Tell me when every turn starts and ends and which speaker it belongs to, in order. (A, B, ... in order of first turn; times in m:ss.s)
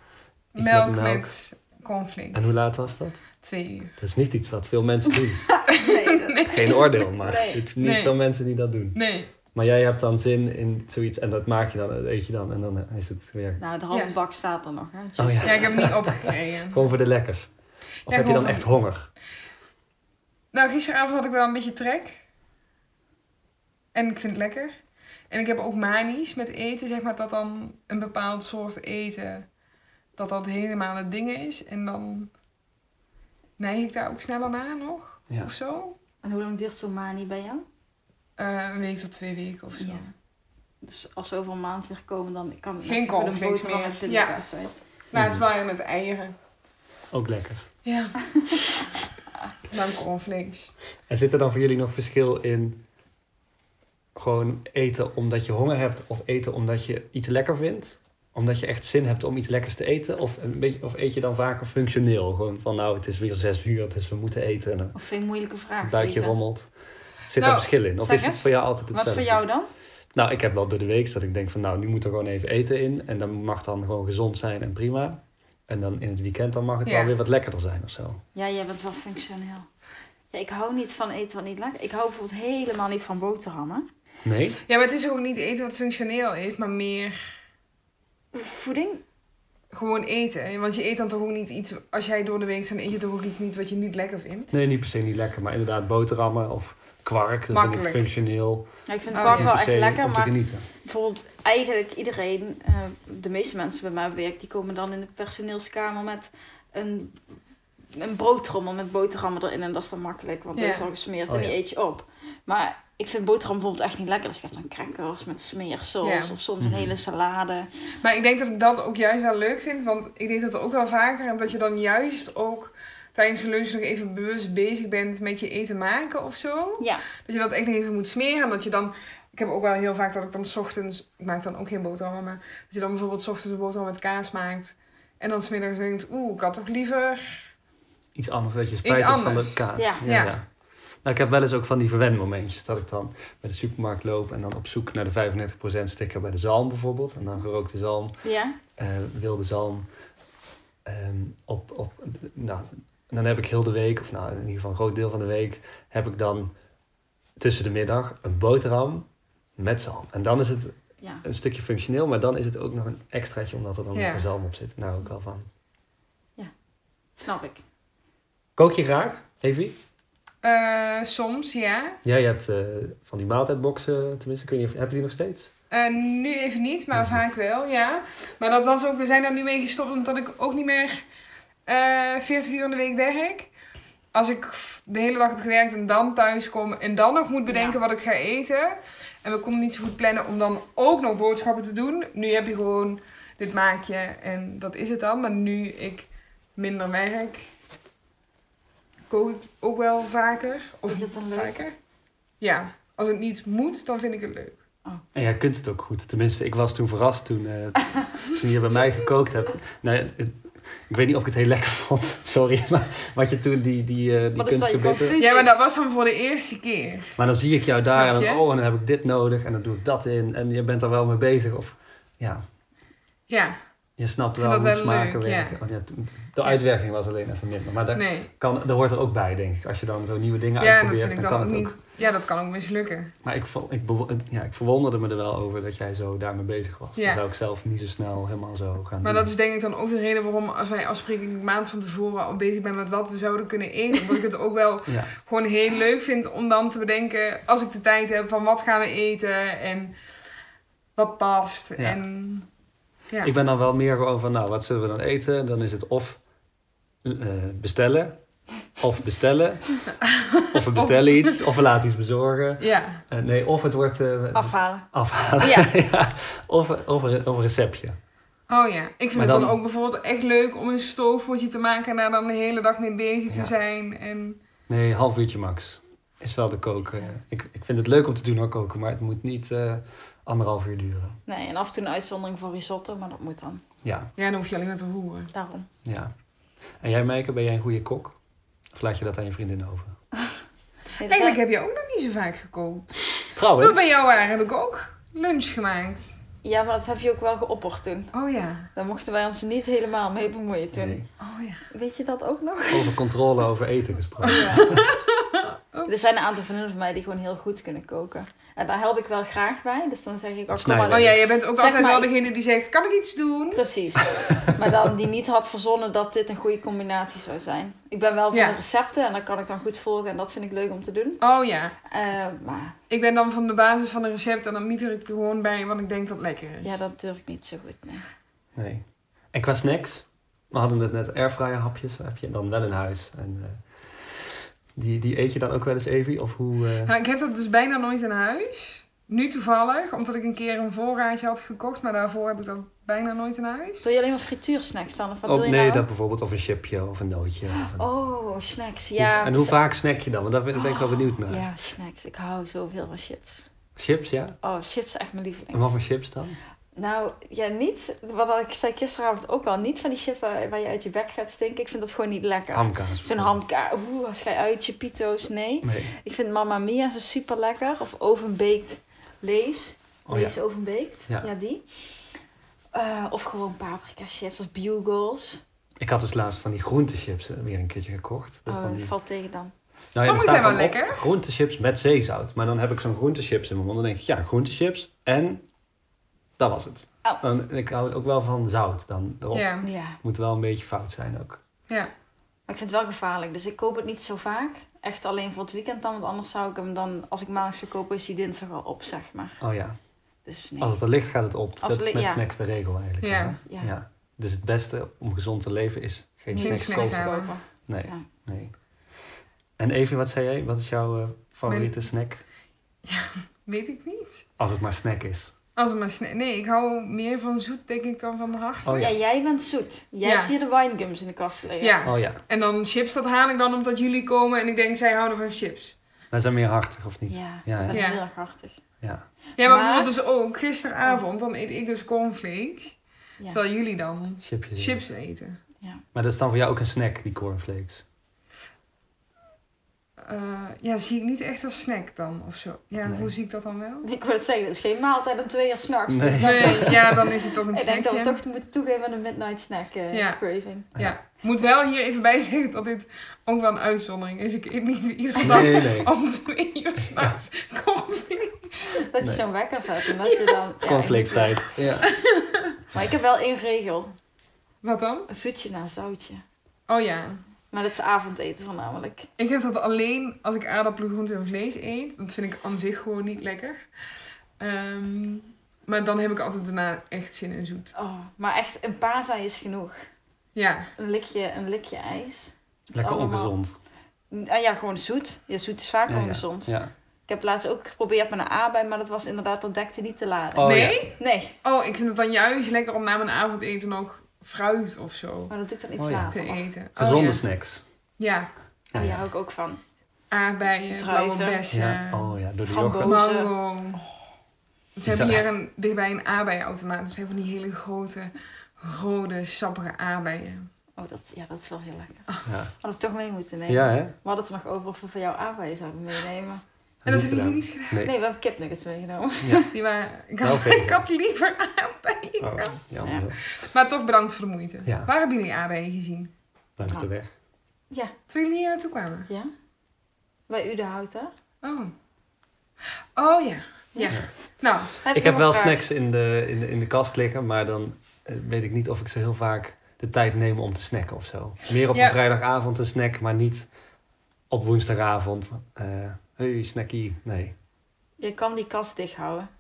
0:00.6-0:01.3 A
0:00.6-0:02.4 B
0:02.3-0:03.2 A
0:03.4-0:03.9 B
0:04.0-0:05.6 A
0:05.7-0:06.5 C
0:05.7-0:06.8 B
0:06.5-0:13.6 A
0:07.2-0:07.6 C
0:07.8-0:08.2 B
0:08.9-0:09.3 B
0:13.6-0:15.9 C
0:15.2-0:17.5 A
0:15.4-0:16.8 B
0:18.1-0:18.7 B
0:18.1-0:19.1 A
0:20.5-0:22.2 B
0:23.9-0:24.8 B
0:25.3-0:29.5 B
0:30.2-0:32.3 B
0:33.6-0:36.0 B
0:36.2-0:37.6 C
0:38.4-0:40.0 B
0:40.8-0:44.7 C
0:42.8-0:44.4 B
0:45.1-0:46.4 B
0:45.1-0:45.4 A
0:47.1-0:47.6 A
0:47.8-0:48.2 B
0:49.7-0:50.7 B
0:51.1-0:52.8 A
0:54.2-1:05.0 A
1:05.0-1:06.4 C
1:05.8-1:06.7 A
1:07.3-1:09.4 A
1:07.4-1:07.7 B
1:08.0-1:09.7 C
1:10.1-1:18.2 A
1:16.8-1:17.1 B
1:18.3-1:19.7 C
1:20.3-1:23.9 C
1:24.2-1:24.6 A
1:24.7-1:27.3 B
1:28.3-1:29.0 C
1:29.7-1:34.5 B
1:34.5-1:38.7 A
1:37.5-1:38.1 B
1:38.9-1:47.2 C
1:39.1-1:39.5 B
1:39.2-1:40.7 A
1:47.9-1:57.7 C
1:50.6-1:50.9 B
1:51.3-1:51.6 A
1:56.0-1:56.4 B
1:56.6-1:57.0 A
1:58.0-2:17.5 B
2:06.8-2:07.0 C
2:18.2-2:20.5 A
2:18.8-2:20.4 B
2:19.8-2:20.0 C
2:21.0-2:28.2 A
2:28.2-2:28.6 C
2:28.8-2:29.9 A
2:30.8-2:36.5 A
2:37.4-2:45.5 A
2:43.9-2:44.3 B
2:47.2-2:47.6 C
2:48.6-2:49.8 A
2:50.4-2:52.0 B
2:52.0-2:55.5 A
2:55.7-3:01.0 B
2:56.9-2:57.2 A
3:01.7-3:03.5 B
3:04.1-3:17.5 B
3:07.5-3:07.8 C
3:19.1-3:21.8 B
3:20.9-3:21.6 C
3:22.4-3:24.6 B
3:25.1-3:35.2 A
3:34.4-3:35.5 C
3:35.1-3:37.2 B
3:37.2-3:42.4 A
3:37.8-3:38.4 B
3:43.3-3:43.6 B
3:44.0-3:51.8 A
3:44.4-3:45.6 B
3:47.9-3:48.3 B
3:50.6-3:53.1 B
3:53.2-3:59.3 A
3:59.0-4:10.0 B
4:04.9-4:05.1 A
4:11.0-4:12.5 B
4:13.2-4:16.2 A
4:17.0-4:18.2 A
4:18.8-4:19.8 A
4:20.0-4:21.4 B
4:20.5-4:28.0 A
4:22.6-4:23.0 B
4:24.3-4:24.9 C
4:25.4-4:25.7 C
4:28.5-4:34.4 B
4:29.2-4:29.6 A
4:34.7-4:41.2 A
4:41.3-4:43.6 C
4:43.8-4:44.1 A
4:44.2-4:45.3 B
4:45.3-4:45.7 C
4:45.8-4:46.1 A
4:46.8-4:48.2 A
4:48.7-4:50.0 A
4:51.0-4:51.4 C
4:51.0-4:52.9 B
4:53.3-4:53.8 A
4:53.6-4:56.1 B
4:56.4-4:58.1 C
4:58.1-4:58.7 B
4:58.8-5:01.0 C
5:00.7-5:01.1 A
5:01.2-5:01.6 B
5:01.7-5:03.0 C
5:02.7-5:04.8 A
5:04.2-5:04.9 C
5:04.2-5:06.1 B
5:05.9-5:12.1 C
5:10.5-5:11.2 A
5:10.9-5:13.6 B
5:13.5-5:21.2 C
5:18.3-5:18.6 B
5:21.2-5:21.7 B
5:21.8-5:22.8 C
5:22.9-5:26.7 B
5:26.6-5:28.1 C
5:28.6-5:36.9 A
5:36.8-5:43.8 B
5:43.8-5:45.9 C
5:45.3-5:47.9 A
5:47.6-5:49.6 C
5:49.0-5:51.5 A
5:50.5-5:53.5 C
5:53.8-5:54.4 A
5:54.4-5:55.7 C
5:55.5-5:56.4 A
5:56.8-6:12.2 C
6:02.5-6:03.4 A
6:05.6-6:05.9 A
6:10.1-6:10.4 A
6:12.7-6:15.4 C
6:15.8-6:18.9 A
6:18.5-6:19.5 C
6:19.9-6:25.4 A
6:20.0-6:21.0 B
6:26.4-6:31.4 A
6:29.3-6:29.7 B
6:29.6-6:30.0 C
6:32.5-6:39.4 C
6:39.4-6:39.8 A
6:40.2-6:40.8 C
6:40.6-6:47.2 A
6:41.6-6:42.2 C
6:43.0-6:43.4 B
6:46.3-6:48.1 C
6:46.4-6:47.3 B
6:47.7-6:48.5 A
6:49.6-6:52.2 A
6:51.5-6:51.7 B
6:52.8-6:54.2 B
6:54.4-6:55.3 A
6:55.6-6:58.9 B
6:58.6-6:58.9 A
6:58.7-7:01.8 C
7:00.0-7:00.3 B
7:01.6-7:05.8 B
7:01.9-7:02.2 A
7:06.1-7:07.8 A
7:07.1-7:08.6 C
7:07.7-7:08.0 B
7:09.4-7:12.8 B
7:09.4-7:09.9 C
7:13.3-7:15.4 B
7:14.2-7:14.8 A
7:15.9-7:17.8 A
7:20.0-7:23.9 B
7:22.8-7:23.1 A
7:23.8-7:30.7 C
7:25.9-7:27.0 A
7:26.2-7:28.2 B
7:29.9-7:30.2 B
7:30.8-7:38.8 B
7:35.2-7:35.9 A
7:38.8-7:41.4 C
7:40.0-7:40.4 B
7:40.6-7:41.9 A
7:41.8-7:42.6 B
7:42.7-7:43.9 C
7:44.6-7:45.1 B
7:45.1-7:46.2 C
7:46.7-7:47.2 B
7:47.5-7:49.1 C
7:49.2-7:53.6 B
7:54.4-7:57.7 B
7:57.8-7:59.8 C
8:00.4-8:00.7 B
8:00.8-8:03.3 C
8:02.8-8:03.5 A
8:04.1-8:06.6 C
8:05.9-8:06.7 A
8:07.1-8:11.4 C
8:10.4-8:10.9 A
8:10.4-8:15.3 B
8:15.3-8:16.4 C
8:15.8-8:16.1 A
8:16.1-8:17.2 B
8:16.8-8:17.6 A
8:18.0-8:18.3 B
8:18.7-8:19.0 A
8:18.8-8:19.6 C
8:20.1-8:22.2 B
8:20.7-8:21.4 C
8:21.5-8:23.0 A
8:22.5-8:23.3 C
8:22.8-8:23.8 B
8:24.8-8:30.5 B
8:24.9-8:25.2 A
8:30.8-8:32.1 C
8:32.3-8:32.5 A
8:32.6-8:36.4 C
8:33.5-8:33.9 A
8:36.8-8:37.9 A
8:36.8-8:37.8 B
8:37.8-8:39.5 C
8:39.2-8:39.5 A
8:39.5-8:42.6 B
8:40.2-8:40.8 A
8:42.2-8:43.2 A
8:42.8-8:43.1 C
8:43.2-8:46.1 B
8:44.7-8:44.9 A
8:46.6-8:47.1 A
8:48.1-8:49.1 B
8:50.3-8:51.1 C
8:51.4-8:51.7 B
8:53.0-8:54.7 B
8:54.8-8:55.6 C
8:54.8-9:03.5 A
9:04.3-9:07.4 A
9:08.0-9:09.3 C